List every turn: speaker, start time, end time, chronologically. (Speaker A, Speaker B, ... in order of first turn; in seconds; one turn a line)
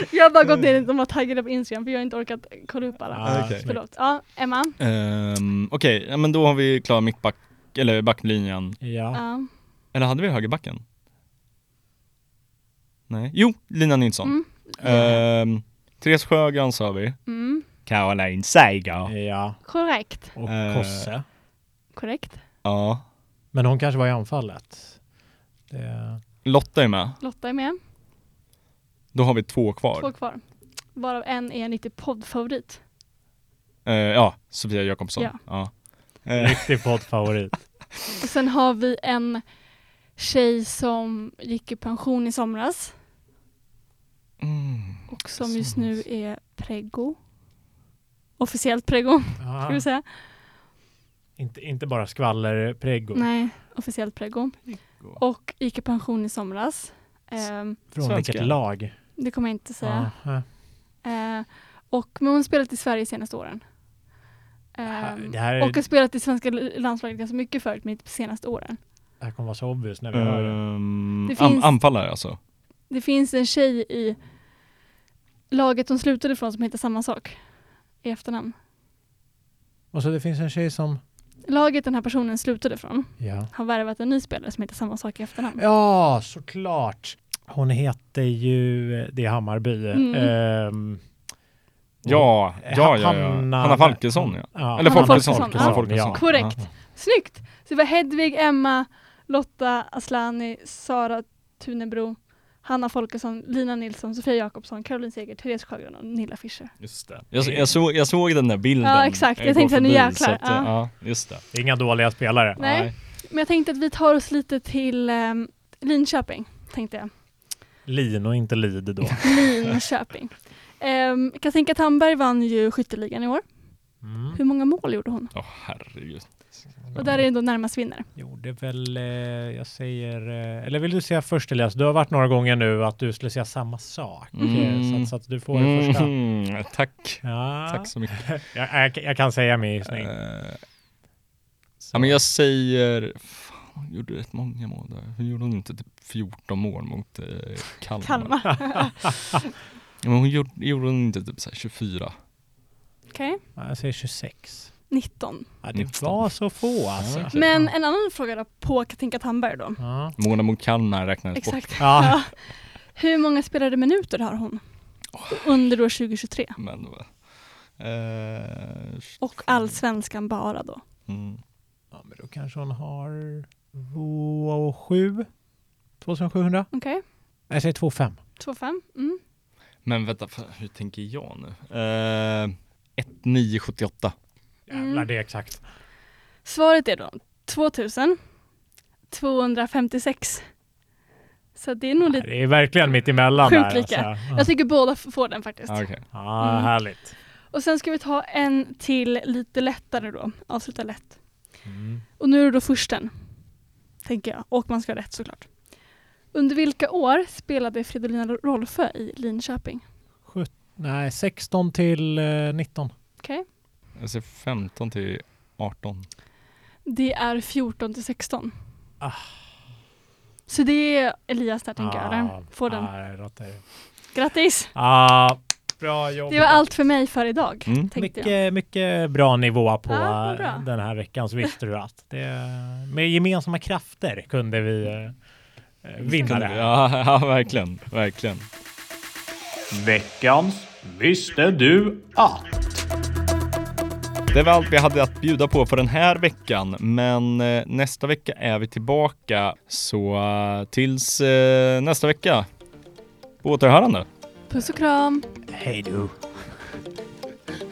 Speaker A: 0.1-4.8
Speaker B: 3.1-3.9
Speaker C: 3.2-3.7
Speaker C: 4.8-8.8
Speaker B: 8.8-9.2
Speaker A: 9.1-9.5
Speaker C: 9.9-10.8
Speaker C: 13.1-19.1
Speaker A: 14.2-15.2
Speaker A: 17.3-17.7
Speaker B: 19.1-21.2
Speaker A: 19.6-20.3
Speaker C: 20.5-21.1
Speaker A: 21.9-22.4
Speaker C: 22.6-23.0
Speaker B: 23.5-25.0
Speaker B: 25.7-26.2
Speaker C: 26.4-27.2
Speaker A: 27.2-27.8
Speaker C: 29.1-30.1
Speaker A: 29.9-32.8
Speaker C: 33.9-37.2
Speaker B: 36.3-37.9
Speaker A: 38.2-39.6
Speaker A: 40.1-43.0
Speaker C: 44.4-45.9
Speaker A: 45.1-47.2
Speaker A: 48.4-50.2
Speaker B: 49.4-49.9
Speaker B: 51.4-53.3
Speaker A: 53.1-57.8
Speaker C: 54.6-55.2
Speaker B: 57.9-59.2
Speaker C: 58.0-58.6
Speaker A: 59.2-63.6
Speaker B: 59.8-60.5
Speaker A: 64.8-68.8
Speaker B: 64.9-65.8
Speaker B: 69.2-70.6
Speaker C: 70.1-72.4
Speaker A: 71.3-71.8
Speaker A: 72.9-74.2
Speaker A: 75.5-78.5
Speaker B: 79.9-81.0
Speaker A: 81.5-85.6
Speaker B: 83.2-83.5
Speaker B: 85.6-91.0
Speaker A: 89.9-90.3
Speaker B: 92.0-96.7
Speaker C: 92.1-96.6
Speaker A: 94.8-106.8
Speaker C: 106.8-111.5
Speaker B: 107.3-107.7
Speaker A: 108.8-110.7
Speaker B: 111.5-112.8
Speaker A: 112.6-117.1
Speaker C: 112.6-112.9
Speaker B: 117.8-119.4
Speaker A: 119.2-125.3
Speaker B: 124.0-124.4
Speaker C: 125.3-127.1
Speaker B: 126.8-127.2
Speaker A: 126.9-128.1
Speaker B: 128.2-136.1
Speaker C: 134.3-138.4
Speaker A: 134.4-134.7
Speaker B: 137.2-140.2
Speaker C: 139.9-140.6
Speaker B: 141.8-142.2
Speaker C: 141.9-149.0
Speaker A: 148.0-149.4
Speaker C: 150.0-152.1
Speaker A: 153.1-153.4
Speaker B: 153.6-154.8
Speaker A: 154.9-155.6
Speaker B: 155.6-157.7
Speaker C: 155.7-157.4
Speaker A: 157.3-159.8
Speaker B: 159.8-160.2
Speaker C: 160.2-162.2
Speaker A: 161.3-166.6
Speaker B: 161.8-162.2
Speaker C: 165.1-165.6
Speaker C: 166.6-169.0
Speaker A: 169.2-170.8
Speaker C: 171.1-171.4
Speaker B: 171.9-175.3
Speaker B: 176.0-176.7
Speaker A: 176.7-177.0
Speaker B: 177.5-178.2
Speaker A: 178.4-179.2
Speaker C: 179.8-184.1
Speaker B: 184.7-185.6
Speaker A: 184.7-185.1
Speaker A: 186.4-188.2
Speaker A: 189.1-190.5
Speaker A: 191.6-192.8
Speaker B: 192.0-194.5
Speaker A: 193.4-196.7
Speaker C: 195.7-196.0
Speaker B: 196.1-197.2
Speaker A: 197.5-201.2
Speaker B: 201.6-202.0
Speaker A: 202.2-203.4
Speaker A: 204.0-205.7
Speaker A: 206.3-209.8
Speaker B: 210.3-212.9
Speaker A: 213.2-213.4
Speaker C: 213.9-216.1
Speaker A: 216.9-218.6
Speaker B: 219.0-219.5
Speaker A: 220.5-222.9
Speaker B: 221.8-224.1
Speaker A: 224.1-224.7
Speaker B: 224.7-226.7
Speaker A: 226.3-228.3
Speaker C: 227.7-227.9
Speaker B: 227.9-235.2
Speaker A: 229.9-230.7
Speaker B: 235.8-236.7
Speaker C: 236.0-238.5
Speaker B: 239.7-242.7
Speaker C: 244.3-252.5
Speaker C: 253.4-254.1
Speaker A: 254.5-255.3
Speaker B: 255.5-256.3